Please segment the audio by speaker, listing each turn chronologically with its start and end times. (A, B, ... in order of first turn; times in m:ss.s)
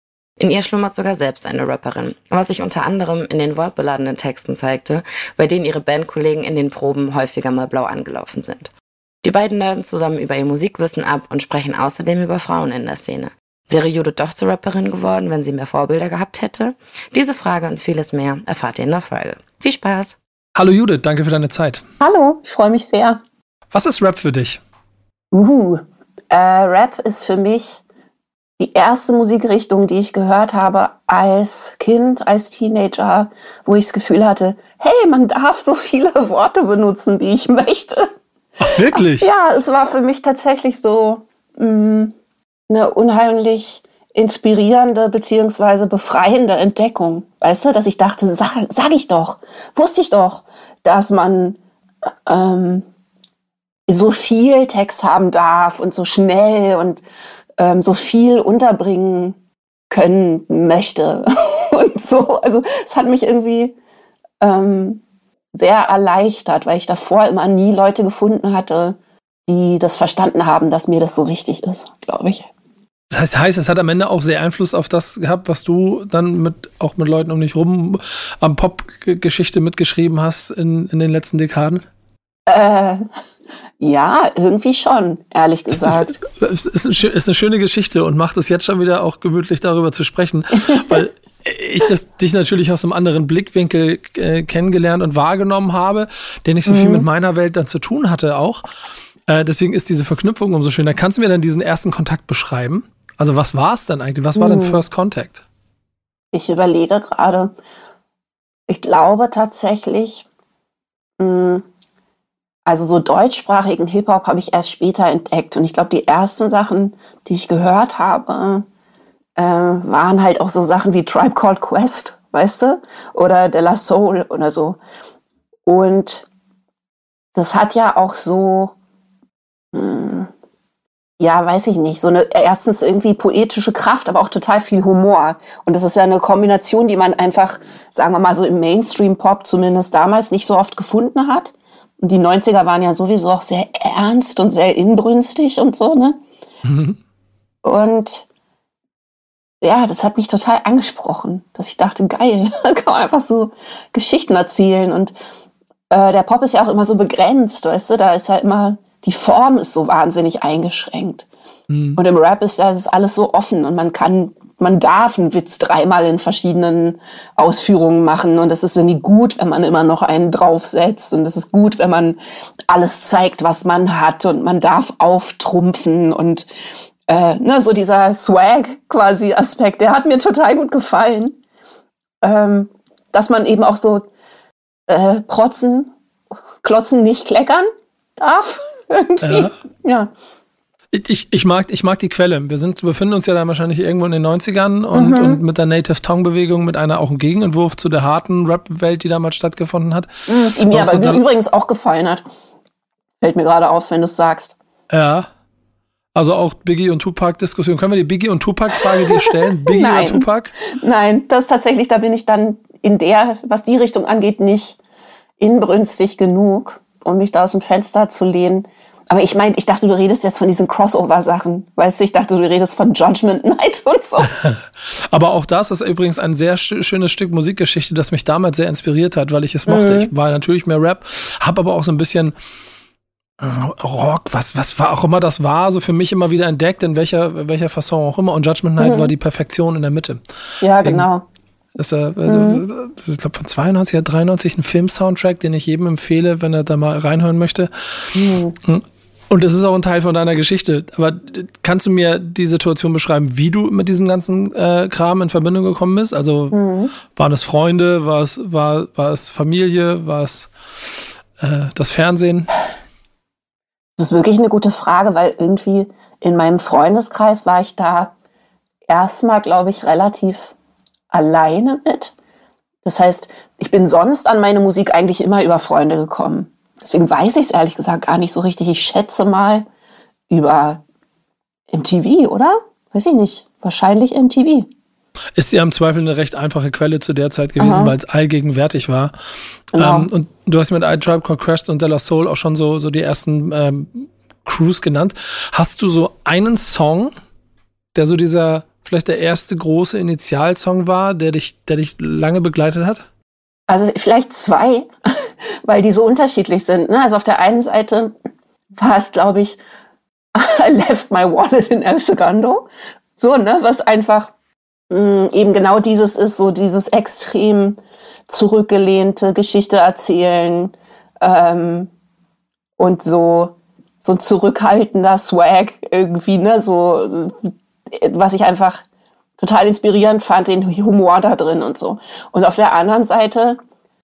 0:00.4-0:08.7 A
0:09.2-0:20.2 A
0:20.6-0:21.8 B
0:22.0-0:23.2 C
0:23.7-0:24.6 B
0:25.3-0:27.8 C
0:28.6-0:38.1 C
0:38.6-0:39.3 B
0:38.9-0:42.1 C
0:42.7-0:51.6 C
0:52.3-0:52.8 C
0:53.9-0:57.0 C
0:57.6-0:59.4 C
0:59.9-1:03.8 C
1:04.4-1:05.0 C
1:05.5-1:12.5 C
1:13.1-1:21.8 B
1:22.5-1:23.0 C
1:23.8-1:26.2 C
1:25.7-1:38.6 B
1:30.6-1:31.0 C
1:36.7-1:37.0 C
1:39.3-1:45.4 B
1:44.4-1:44.8 C
1:46.3-1:47.5 C
1:48.7-1:50.2 C
1:51.2-1:51.6 C
1:52.7-1:58.6 C
1:59.4-2:04.8 C
2:05.7-2:06.2 C
2:07.3-2:08.7 C
2:09.7-2:10.3 C
2:11.2-2:26.2 C
2:26.6-2:27.0 B
2:27.6-2:28.2 C
2:29.6-2:35.2 C
2:35.9-2:41.3 C
2:41.7-2:42.0 B
2:42.0-2:52.2 C
2:52.7-2:56.4 C
2:57.1-3:01.4 C
3:02.2-3:04.1 C
3:04.9-3:05.9 C
3:06.6-3:10.1 C
3:09.2-3:09.5 B
3:10.9-3:21.2 B
3:14.9-3:15.4 C
3:20.3-3:22.2 C
3:23.2-3:24.6 C
3:24.9-3:25.3 B
3:26.1-3:30.5 B
3:28.8-3:34.8 C
3:35.4-3:44.3 C
3:44.2-3:52.3 B
3:49.7-3:50.1 C
3:53.4-4:00.2 B
3:58.8-3:59.1 C
4:00.6-4:01.2 C
4:00.8-4:01.1 B
4:01.8-4:08.1 B
4:02.2-4:02.6 C
4:08.2-4:08.5 C
4:08.6-4:16.6 B
4:16.5-4:16.9 C
4:17.1-4:20.5 B
4:21.4-4:22.5 B
4:24.0-4:28.1 C
4:28.9-4:30.5 C
4:31.1-4:32.1 C
4:32.8-4:39.7 C
4:40.3-4:40.8 C
4:41.7-4:44.7 C
4:45.4-4:49.1 B
4:47.6-4:48.0 C
4:49.7-4:50.1 C
4:49.8-4:57.1 B
4:58.0-5:03.0 B
5:03.7-5:08.1 C
5:08.8-5:09.6 C
5:10.4-5:12.7 C
5:13.2-5:14.3 C
5:14.9-5:21.9 C
5:22.8-5:28.8 C
5:29.4-5:33.6 C